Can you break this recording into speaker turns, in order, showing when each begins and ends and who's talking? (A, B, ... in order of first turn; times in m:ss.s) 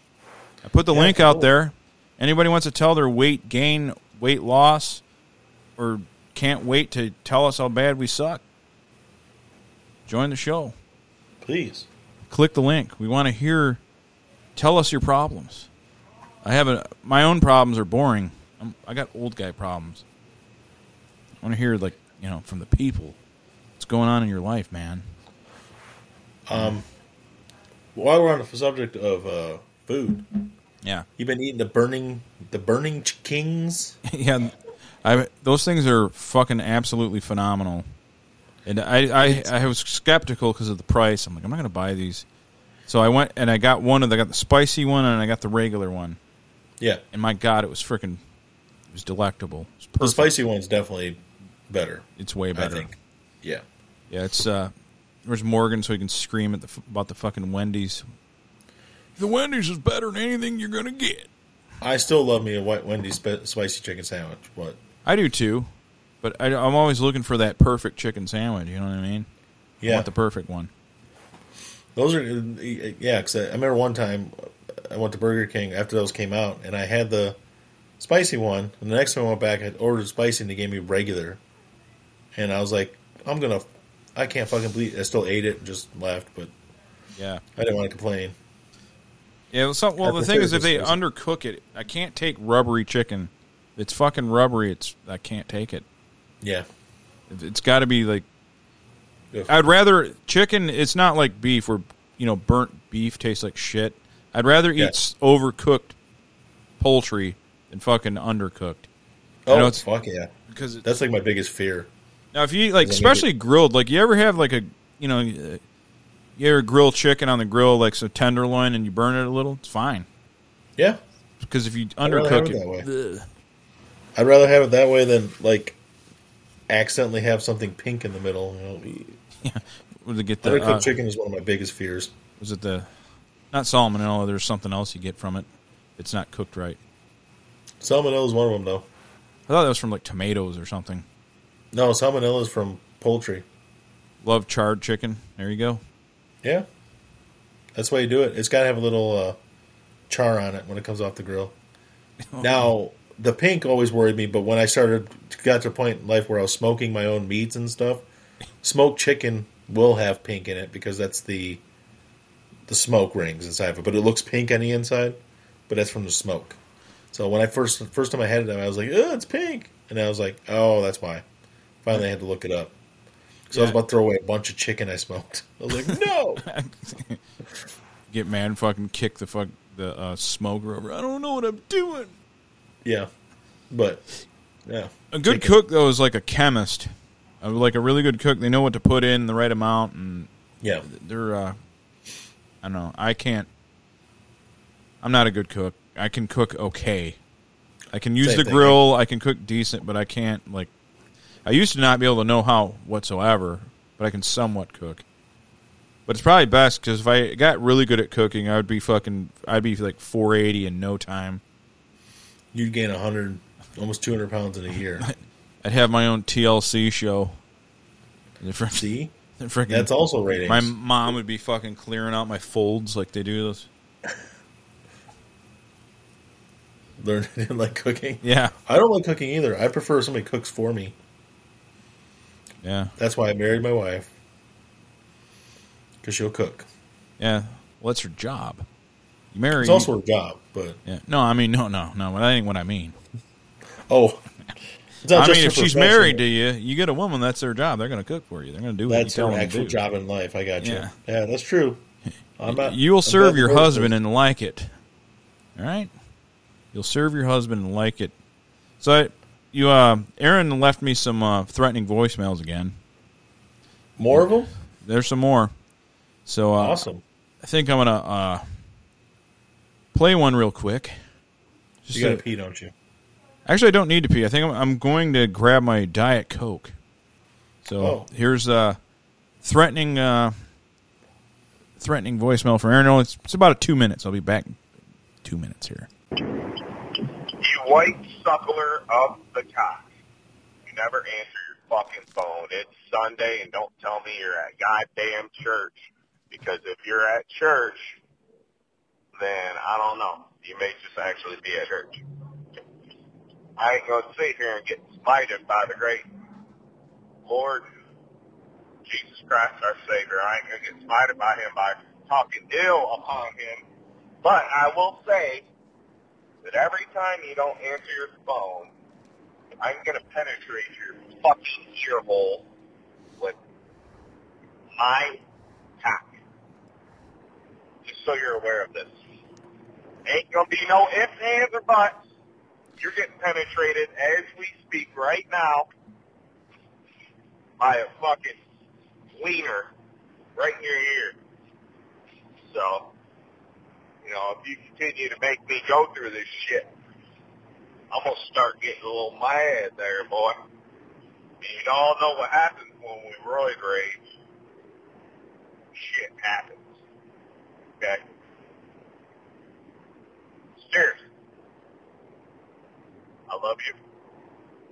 0:00.6-0:05.0 A
0:00.9-0:01.5 B
0:05.8-0:08.4 A
0:10.1-0:10.8 A
0:11.4-0:11.9 B
0:12.3-0:13.8 A
0:14.6-0:15.7 A
0:16.4-0:20.0 A
0:21.4-0:23.2 A
0:23.8-0:25.0 A
0:26.4-0:26.8 B
0:27.9-0:30.3 B
0:31.2-0:34.0 B
0:34.0-0:37.9 A
0:38.6-0:42.2 A
0:42.9-0:46.2 A
0:47.1-0:48.2 A
0:48.9-0:50.3 A
0:50.0-0:53.6 B
0:52.2-0:52.9 A
0:54.1-0:54.7 A
0:55.2-0:58.0 A
0:59.2-1:01.3 A
1:01.8-1:04.8 B
1:05.0-1:05.7 A
1:06.2-1:09.3 A
1:09.8-1:10.1 B
1:09.8-1:10.7 A
1:11.9-1:17.4 B
1:18.0-1:21.4 B
1:22.3-1:26.5 B
1:27.2-1:27.4 A
1:27.6-1:28.4 B
1:29.5-1:35.8 A
1:30.0-1:31.0 B
1:37.3-1:38.2 A
1:39.5-1:45.9 A
1:46.8-1:48.9 A
1:49.4-1:50.3 B
1:49.5-1:49.8 A
1:50.5-1:50.8 A
1:50.8-1:51.9 B
1:52.3-1:55.6 A
1:52.8-1:53.2 B
1:56.4-2:00.1 A
2:01.4-2:03.3 A
2:02.0-2:02.9 B
2:04.2-2:05.8 B
2:06.7-2:09.2 B
2:09.4-2:10.9 A
2:10.4-2:12.1 B
2:12.4-2:12.9 A
2:13.5-2:16.8 A
2:17.8-2:18.8 B
2:19.5-2:21.0 A
2:21.7-2:23.4 B
2:24.2-2:25.8 A
2:27.7-2:29.4 B
2:30.1-2:31.5 B
2:32.3-2:32.7 A
2:32.4-2:38.0 B
2:38.6-2:41.6 B
2:42.7-2:46.6 B
2:47.1-2:51.2 B
2:51.8-2:52.7 B
2:53.5-2:53.8 A
2:53.5-2:56.4 B
2:56.4-2:57.2 A
2:58.1-3:02.1 A
3:02.8-3:03.1 B
3:03.7-3:04.0 B
3:04.6-3:05.5 B
3:05.1-3:06.9 A
3:07.4-3:10.3 A
3:10.8-3:11.6 A
3:12.6-3:13.5 A
3:15.0-3:17.2 A
3:17.9-3:20.7 A
3:18.2-3:18.8 B
3:21.4-3:25.0 A
3:26.1-3:31.4 A
3:32.5-3:35.1 B
3:35.0-3:37.4 A
3:38.4-3:38.8 A
3:38.8-3:39.1 B
3:39.4-3:39.9 A
3:39.7-3:40.7 B
3:40.4-3:43.7 A
3:47.0-3:50.9 B
3:48.2-3:48.5 A
3:52.6-3:52.9 A
3:53.0-3:54.1 B
3:56.0-3:56.7 B
3:57.2-3:58.6 A
3:59.3-3:59.9 A
3:59.6-4:00.8 B
4:00.8-4:03.0 A
4:03.9-4:04.2 B
4:05.0-4:06.2 B
4:05.1-4:09.8 A
4:08.9-4:11.8 B
4:10.6-4:10.9 A
4:12.4-4:13.9 B
4:12.4-4:14.7 A
4:15.6-4:15.9 A
4:16.7-4:18.1 A
4:18.8-4:22.8 A
4:24.0-4:24.5 B
4:24.8-4:25.5 A
4:26.2-4:26.8 A
4:26.6-4:27.0 B
4:27.4-4:28.4 A
4:29.9-4:31.0 A
4:31.8-4:32.2 A
4:31.9-4:32.7 B
4:33.5-4:36.7 A
4:37.6-4:38.8 A
4:37.8-4:38.0 B
4:39.4-4:40.4 A
4:41.8-4:44.6 A
4:45.2-4:45.9 A
4:47.4-4:49.9 C
4:50.7-4:55.7 C
4:56.3-4:58.0 C
4:59.2-5:02.0 C
5:03.6-5:06.0 C
5:07.2-5:07.7 C
5:08.8-5:13.6 C
5:14.2-5:15.4 C
5:16.4-5:18.7 C
5:19.6-5:22.4 C
5:24.7-5:25.2 C
5:25.8-5:26.2 C
5:27.9-5:28.9 C
5:30.0-5:32.0 C
5:32.8-5:35.6 C
5:37.6-5:38.4 C
5:39.2-5:39.7 C
5:40.4-5:41.2 C
5:42.5-5:42.9 C
5:44.0-5:46.7 C
5:47.9-5:50.4 C
5:51.4-5:54.0 C
5:55.7-5:56.7 C
5:57.8-5:58.0 C
6:00.6-6:01.0 C
6:03.3-6:03.8 C